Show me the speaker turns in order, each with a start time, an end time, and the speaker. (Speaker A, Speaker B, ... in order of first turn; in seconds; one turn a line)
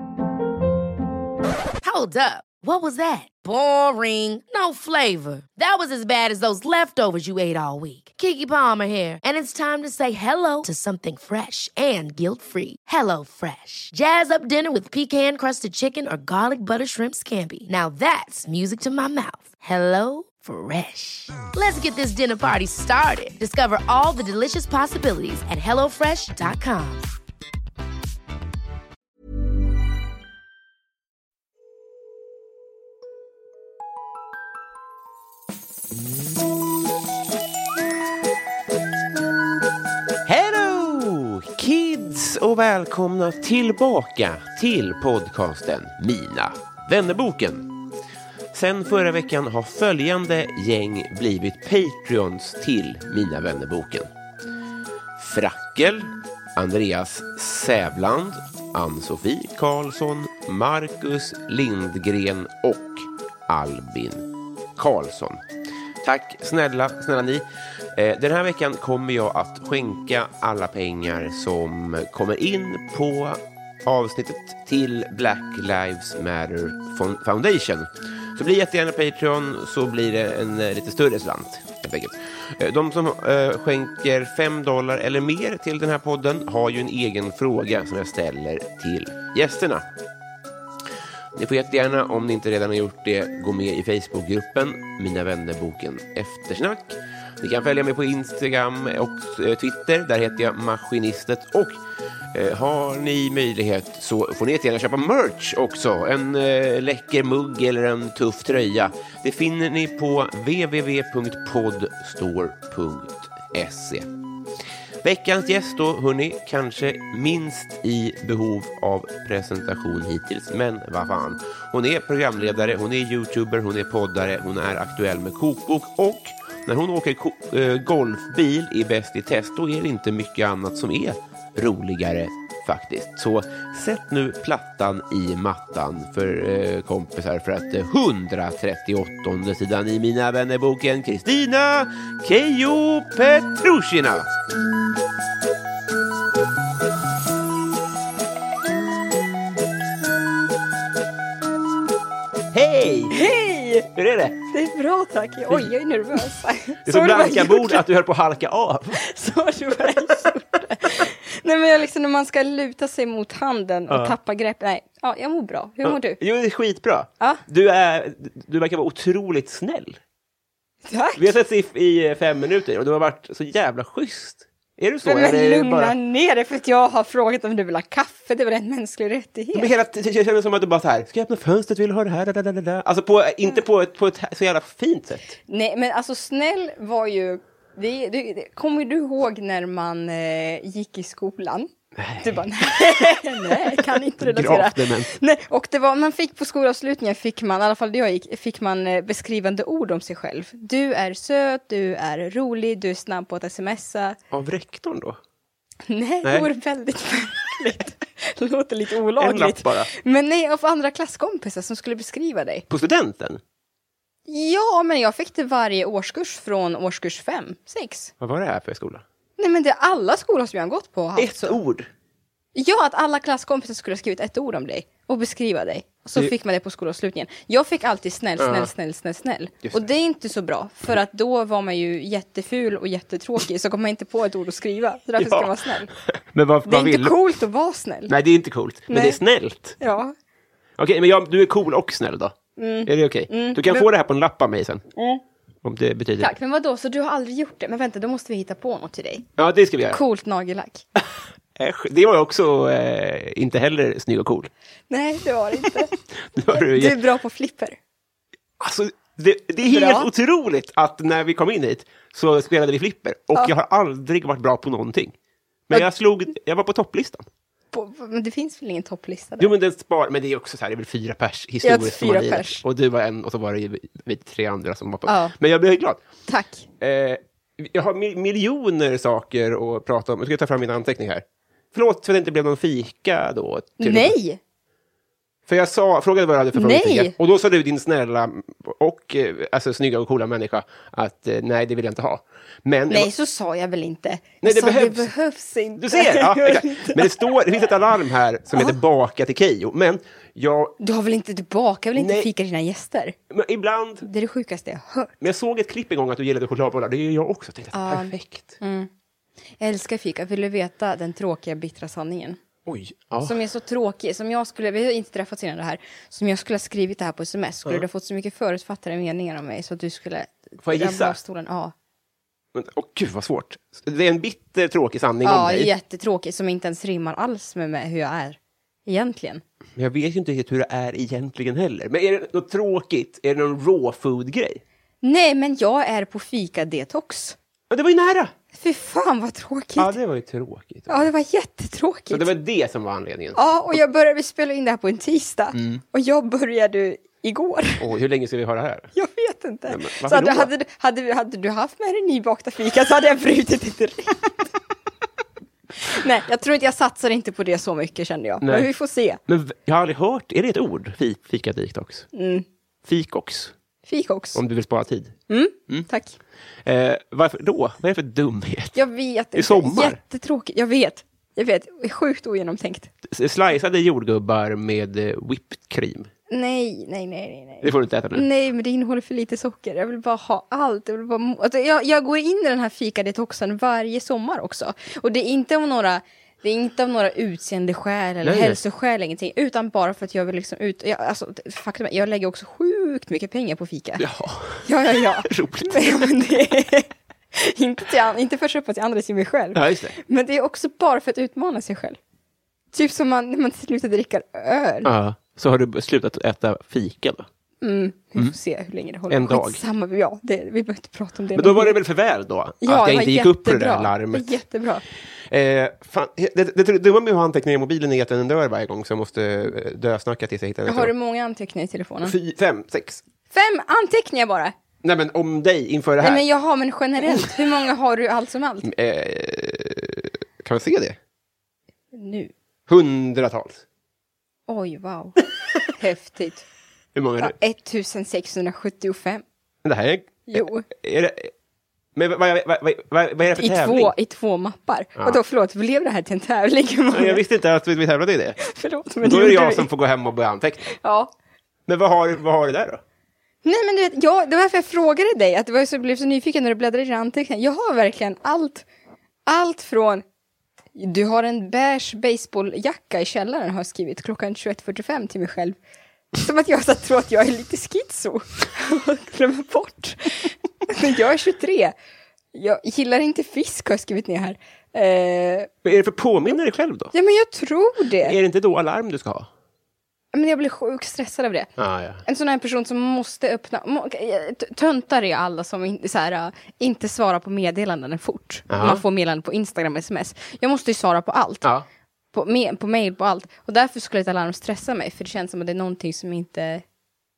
Speaker A: 1.8-27.1
Speaker B: 40.2-47.7
Speaker B: 48.5-54.1
Speaker B: 55.2-65.4
Speaker B: 66.0-89.8
Speaker B: 91.3-101.8
Speaker B: 102.3-114.1
Speaker B: 115.0-144.3
Speaker B: 152.5-153.2
Speaker C: 153.1-153.9
Speaker B: 153.9-154.4
Speaker C: 154.5-157.8
Speaker B: 156.8-159.0
Speaker C: 158.9-166.2
Speaker B: 163.9-164.2
Speaker B: 165.8-170.0
Speaker C: 170.9-171.3
Speaker B: 171.2-176.0
Speaker C: 175.1-179.7
Speaker B: 179.5-185.4
Speaker C: 185.5-204.2
Speaker B: 192.0-192.4
Speaker B: 193.5-195.1
Speaker B: 204.3-205.2
Speaker C: 205.9-212.7
Speaker B: 206.2-206.5
Speaker B: 209.2-209.9
Speaker B: 212.7-213.4
Speaker C: 214.3-218.1
Speaker B: 218.2-219.0
Speaker C: 219.4-221.6
Speaker B: 221.2-221.9
Speaker C: 222.6-235.9
Speaker B: 228.4-228.7
Speaker B: 235.2-237.2
Speaker C: 236.7-238.1
Speaker B: 238.1-239.8
Speaker C: 238.9-239.2
Speaker C: 239.8-240.1
Speaker B: 240.8-244.8
Speaker C: 242.6-243.9
Speaker C: 245.0-245.2
Speaker B: 245.6-246.3
Speaker C: 246.2-249.3
Speaker B: 249.4-250.0
Speaker C: 249.9-250.8
Speaker B: 251.6-254.5
Speaker C: 254.9-255.9
Speaker B: 256.4-257.0
Speaker C: 256.5-257.8
Speaker B: 258.6-265.1
Speaker C: 259.7-260.1
Speaker B: 265.7-267.3
Speaker C: 267.7-269.5
Speaker B: 269.4-276.0
Speaker C: 271.6-272.6
Speaker C: 275.1-275.4
Speaker C: 276.3-276.7
Speaker B: 276.8-284.1
Speaker C: 283.8-284.4
Speaker B: 285.5-293.1
Speaker C: 286.5-287.1
Speaker C: 292.9-297.4
Speaker B: 294.4-295.1
Speaker B: 295.8-300.7
Speaker C: 300.8-303.1
Speaker B: 302.0-302.3
Speaker B: 303.3-304.1
Speaker C: 304.0-305.1
Speaker B: 305.2-308.6
Speaker C: 307.7-308.9
Speaker C: 309.6-312.4
Speaker B: 312.7-313.4
Speaker C: 313.2-321.7
Speaker B: 320.6-321.2
Speaker B: 322.5-325.7
Speaker C: 325.2-329.4
Speaker B: 329.8-334.6
Speaker C: 335.0-337.4
Speaker B: 337.7-338.3
Speaker C: 338.5-340.0
Speaker B: 339.8-341.1
Speaker C: 340.9-342.3
Speaker B: 342.1-343.8
Speaker C: 343.4-347.9
Speaker B: 345.5-345.8
Speaker B: 347.8-348.9
Speaker C: 348.9-354.5
Speaker B: 349.7-350.5
Speaker C: 355.8-359.2
Speaker B: 358.4-358.7
Speaker B: 359.3-362.1
Speaker C: 362.1-362.5
Speaker B: 362.9-363.5
Speaker C: 363.9-364.4
Speaker B: 364.3-365.1
Speaker C: 365.3-366.2
Speaker B: 366.6-368.8
Speaker C: 368.8-372.9
Speaker B: 369.3-370.0
Speaker B: 373.1-376.1
Speaker C: 376.3-394.0
Speaker B: 377.6-378.3
Speaker B: 388.2-388.6
Speaker B: 394.0-396.1
Speaker C: 394.6-402.0
Speaker B: 399.5-400.0
Speaker C: 402.7-404.9
Speaker B: 404.9-407.3
Speaker C: 407.6-411.8
Speaker B: 409.1-409.6
Speaker B: 411.4-414.4
Speaker C: 412.6-414.8
Speaker B: 415.3-420.9
Speaker C: 420.6-422.1
Speaker B: 422.0-423.0
Speaker C: 423.3-424.6
Speaker B: 424.8-426.2
Speaker C: 426.0-428.7
Speaker B: 428.6-431.0
Speaker C: 431.9-432.3
Speaker B: 432.7-433.6
Speaker C: 434.5-436.4
Speaker B: 436.9-437.3
Speaker C: 437.2-439.2
Speaker B: 439.6-441.3
Speaker C: 440.3-440.7
Speaker B: 441.9-443.9
Speaker C: 443.4-447.2
Speaker B: 446.9-448.4
Speaker C: 448.4-449.7
Speaker B: 449.0-450.8
Speaker C: 450.8-451.1
Speaker B: 451.7-452.8
Speaker C: 453.4-458.7
Speaker C: 459.3-460.0
Speaker C: 460.8-465.6
Speaker C: 466.2-471.8
Speaker C: 472.3-475.5
Speaker B: 475.6-476.9
Speaker C: 476.9-478.2
Speaker B: 478.0-479.3
Speaker C: 480.1-481.5
Speaker B: 481.6-482.0
Speaker C: 482.0-491.5
Speaker B: 488.5-488.8
Speaker C: 492.1-496.6